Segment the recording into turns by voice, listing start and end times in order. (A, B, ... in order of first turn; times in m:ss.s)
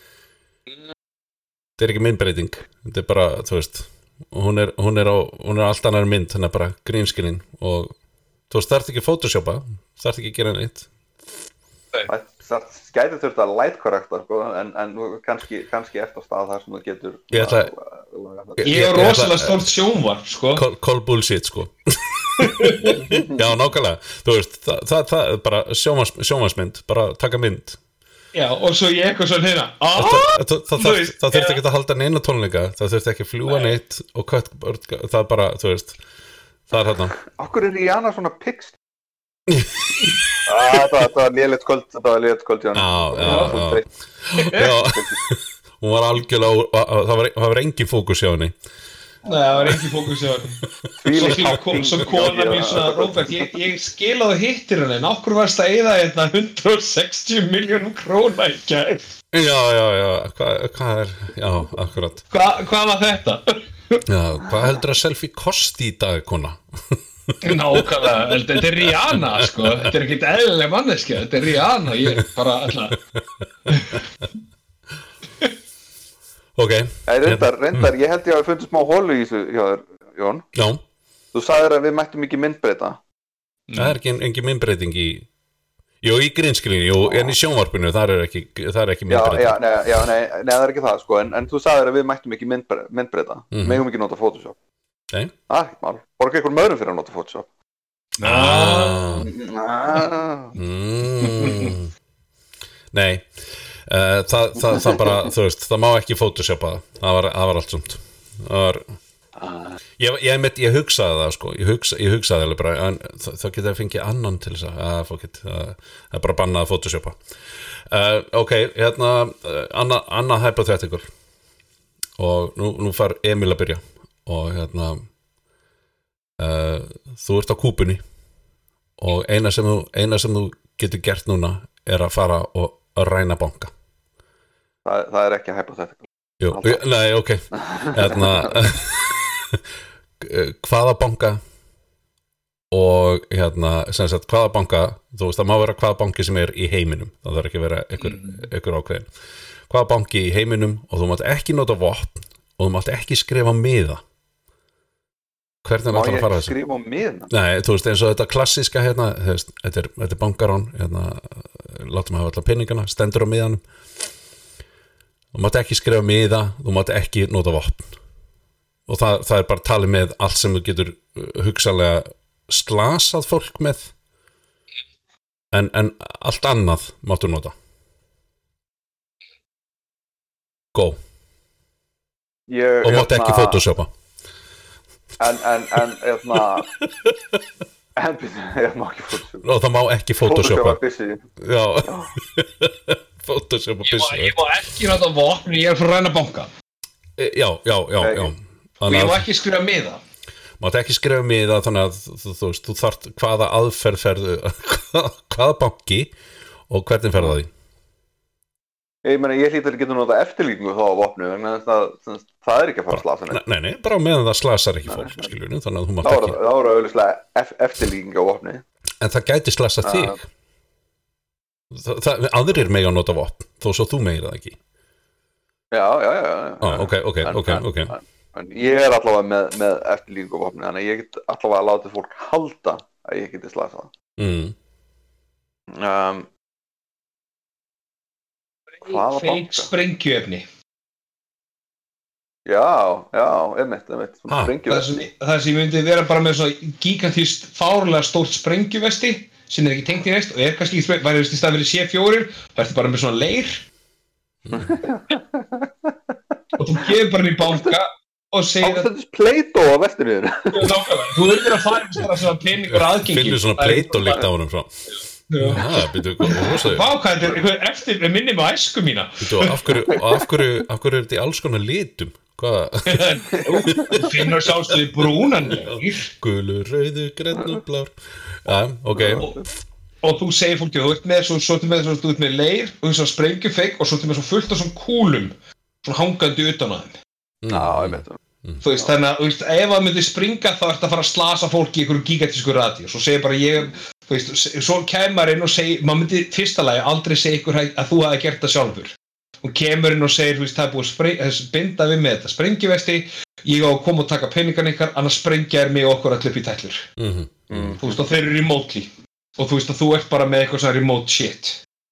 0:01.8-0:08.0 A
0:08.5-0:10.9 A
0:12.1-0:18.8 B
0:17.3-0:17.7 A
0:18.6-0:19.7 A
0:18.6-0:20.7 C
0:20.6-0:27.8 A
0:22.4-0:23.0 C
0:23.0-0:23.4 B
0:28.3-0:31.6 C
0:30.0-0:36.0 A
0:36.7-0:37.1 A
0:37.2-0:38.8 B
0:39.5-0:40.2 A
0:40.4-0:43.8 B
0:42.7-0:48.6 A
0:43.2-0:43.6 C
0:44.4-0:44.8 C
0:44.6-0:45.2 B
0:49.3-0:49.6 B
0:49.3-0:50.6 C
0:51.0-0:53.5 B
0:51.1-0:59.0 C
0:59.3-1:02.2 A
1:02.3-1:04.0 C
1:04.1-1:09.9 A
1:07.4-1:13.0 C
1:13.7-1:14.0 C
1:16.6-1:17.9 A
1:17.1-1:20.4 B
1:20.6-1:20.8 A
1:21.3-1:23.0 B
1:23.7-1:24.0 C
1:23.7-1:25.3 A
1:26.0-1:29.6 A
1:27.0-1:27.4 B
1:29.1-1:34.6 B
1:33.5-1:33.8 A
1:35.5-1:37.5 B
1:38.2-1:39.0 C
1:38.2-1:39.3 A
1:39.2-1:40.6 B
1:40.6-1:41.9 A
1:42.9-1:48.9 A
1:49.4-1:49.8 B
1:50.0-1:57.2 A
1:57.9-2:01.1 A
2:02.2-2:05.1 A
2:06.4-2:08.0 A
2:09.0-2:13.7 A
2:14.8-2:16.8 B
2:16.4-2:19.6 A
2:17.6-2:18.5 B
2:20.2-2:21.4 A
2:22.7-2:29.1 A
2:28.0-2:28.4 C
2:29.7-2:34.0 A
2:35.6-2:36.5 A
2:35.9-2:37.3 B
2:37.3-2:43.6 A
2:45.3-2:48.0 A
2:48.9-2:53.9 A
2:55.5-2:57.5 A
3:00.7-3:01.0 A
3:02.5-3:03.6 B
3:02.8-3:03.9 A
3:05.2-3:06.7 B
3:06.4-3:07.4 A
3:08.0-3:09.5 B
3:09.4-3:10.8 A
3:10.2-3:11.2 B
3:11.4-3:14.4 A
3:11.8-3:12.1 B
3:13.8-3:16.5 C
3:17.2-3:19.3 A
3:18.0-3:18.3 B
3:18.9-3:20.0 C
3:20.6-3:26.1 A
3:26.7-3:27.5 A
3:29.0-3:33.4 B
3:32.9-3:36.4 A
3:34.9-3:35.3 B
3:36.0-3:38.6 B
3:39.0-3:40.2 A
3:39.8-3:40.2 B
3:41.7-3:44.6 A
3:45.7-3:53.9 B
3:46.6-3:47.9 A
3:54.2-3:54.6 A
3:55.7-3:56.3 B
3:58.8-4:00.4 C
3:58.8-3:59.7 B
4:02.4-4:05.0 B
4:04.3-4:04.5 A
4:04.7-4:13.6 C
4:14.4-4:14.8 A
4:14.5-4:15.7 B
4:16.6-4:18.9 C
4:17.4-4:17.8 B
4:18.6-4:20.7 B
4:20.5-4:24.3 C
4:22.6-4:24.7 A
4:25.3-4:25.7 C
4:25.4-4:26.9 A
4:26.2-4:29.7 C
4:29.2-4:34.5 A
4:32.9-4:36.1 C
4:33.4-4:34.1 B
4:35.4-4:39.3 A
4:39.0-4:39.4 B
4:40.0-4:47.0 C
4:47.4-4:48.6 A
4:47.5-4:48.2 B
4:48.6-5:06.9 C
5:07.0-5:07.8 A
5:07.5-5:08.0 B
5:07.8-5:11.6 C